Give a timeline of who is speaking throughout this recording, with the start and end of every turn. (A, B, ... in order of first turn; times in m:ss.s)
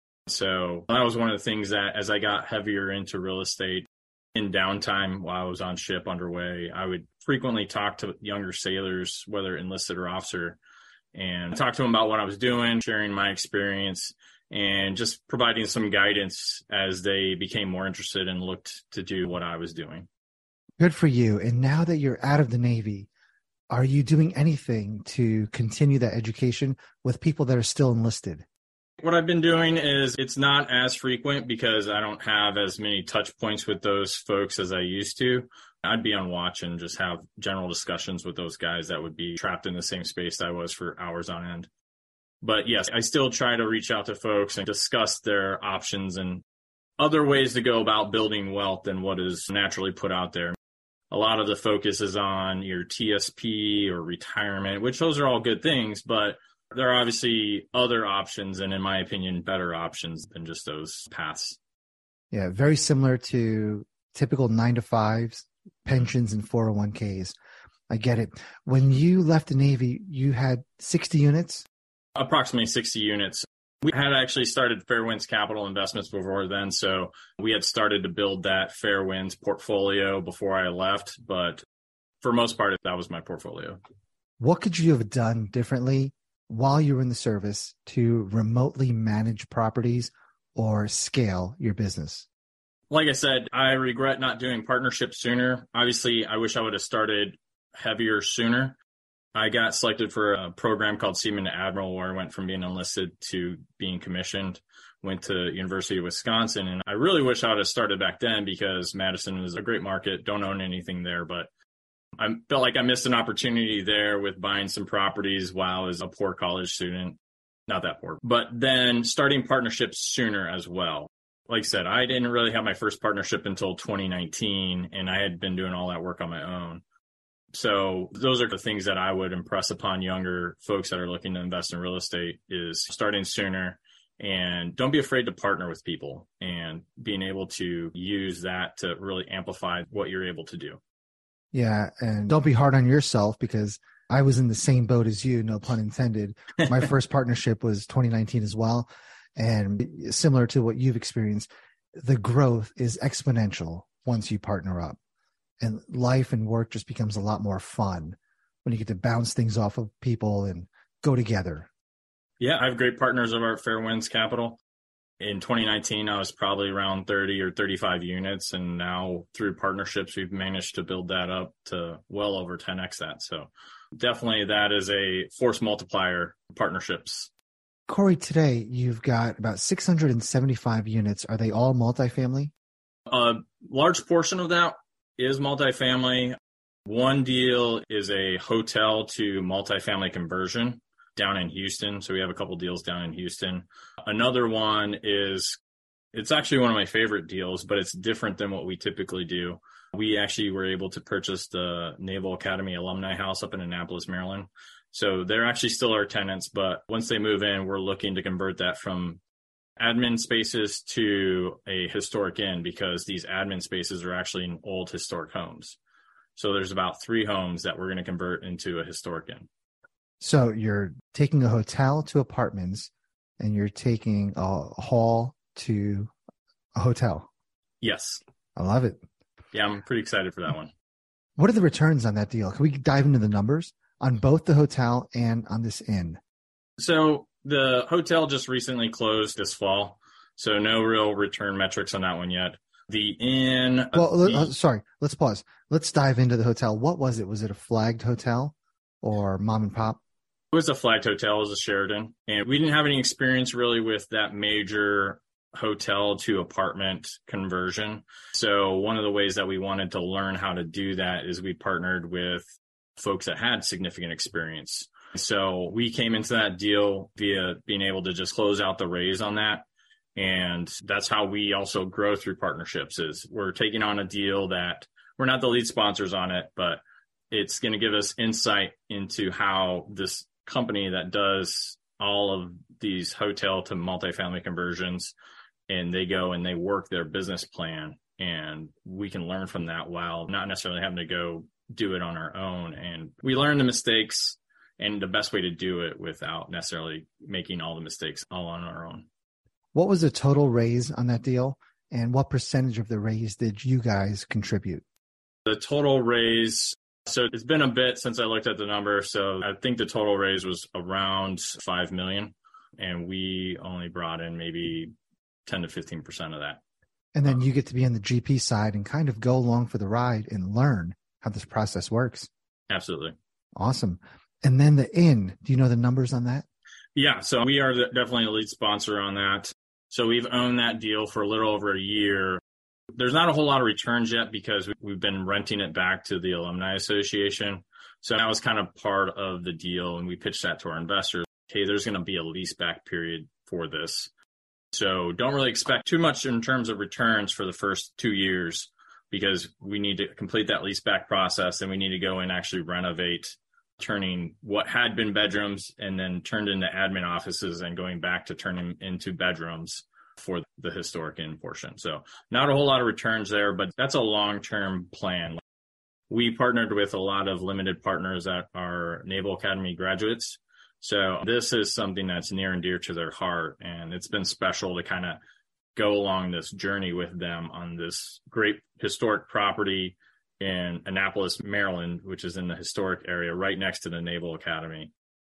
0:00.3-0:10.6 A
0:11.1-0:20.1 A
0:20.8-0:23.1 B
0:23.7-0:28.4 B
0:29.0-0:41.7 A
0:42.4-0:46.4 A
0:47.0-0:50.6 A
0:51.1-1:01.6 A
1:02.3-1:07.3 B
1:07.9-1:11.6 B
1:12.1-1:21.6 A
1:22.2-1:23.8 A
1:24.4-1:32.2 B
1:32.9-1:38.8 A
1:39.3-1:51.5 A
1:52.2-2:06.8 A
2:07.5-2:20.8 A
2:21.5-2:35.0 B
2:35.6-2:41.7 B
2:42.4-2:44.6 A
2:45.2-2:57.3 A
2:57.9-3:02.5 B
3:03.1-3:15.6 A
3:16.1-3:29.2 A
3:29.8-3:35.8 A
3:36.4-3:39.5 A
3:40.2-3:46.1 B
3:46.7-3:47.3 B
3:47.8-3:48.2 A
3:48.6-3:49.0 B
3:49.5-3:50.7 A
3:51.4-3:56.2 B
3:56.8-4:04.5 A
4:03.9-4:10.0 B
4:10.5-4:45.1 A
4:45.7-4:59.0 A
4:59.7-5:04.8 B
5:05.4-5:14.9 A
5:15.4-5:16.6 A
5:17.1-5:22.3 B
5:22.7-5:23.1 A
5:23.6-5:26.4 B
5:27.0-5:32.4 A
5:32.9-5:44.1 A
5:44.7-6:05.4 A
6:06.1-6:15.2 A
6:15.8-6:24.9 A